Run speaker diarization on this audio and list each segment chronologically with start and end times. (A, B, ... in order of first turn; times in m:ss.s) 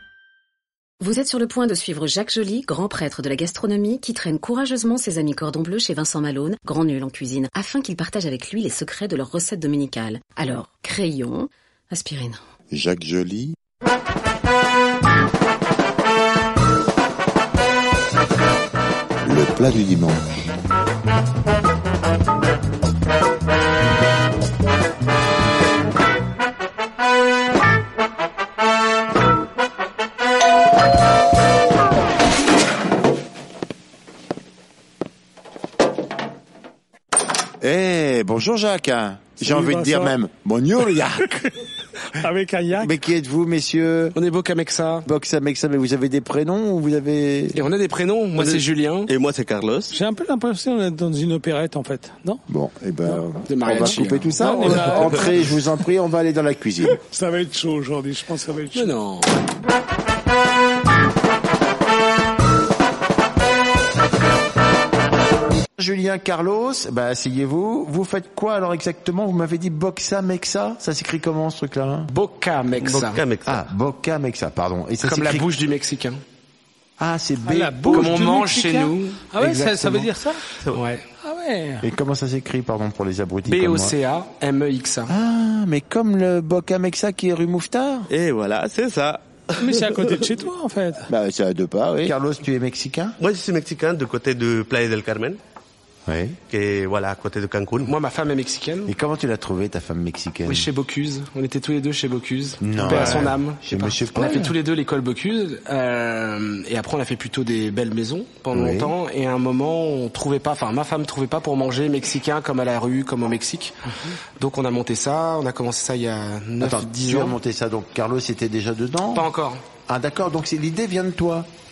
0:01.0-0:12.4 A
0:12.7-0:13.6 B
0:19.2-0:20.5 B
0:37.6-0:41.6 B
0:39.4-0:40.2 C
0:42.1-0:42.9 C
0:42.8-0:44.2 B
0:44.2-0:45.1 D
0:45.0-0:47.7 B
0:47.5-0:49.1 D
0:48.4-0:49.9 E
0:49.9-0:52.4 C
0:52.5-0:57.0 B
0:53.5-0:54.6 D
0:54.4-0:55.7 C
0:56.9-0:58.9 C
0:58.7-0:59.4 D
1:05.8-1:12.1 B
1:12.1-1:13.2 D
1:12.8-1:13.6 E
1:13.4-1:15.5 B
1:15.0-1:16.2 D
1:17.0-1:18.2 B
1:17.4-1:20.4 C
1:17.9-1:21.0 D
1:21.2-1:21.9 C
1:21.8-1:24.0 B
1:23.5-1:25.1 D
1:25.1-1:28.1 B
1:28.1-1:30.3 E
1:29.6-1:31.1 C
1:31.1-1:33.2 B
1:33.2-1:35.4 E
1:36.1-1:36.4 B
1:36.5-1:37.9 E
1:37.9-1:38.9 D
1:38.9-1:40.7 B
1:40.5-1:57.4 D
1:42.6-1:44.5 B
1:42.8-1:43.3 C
1:44.2-1:44.5 C
1:48.5-1:49.0 B
1:56.6-1:59.3 B
1:59.1-1:59.6 D
1:59.9-2:01.5 B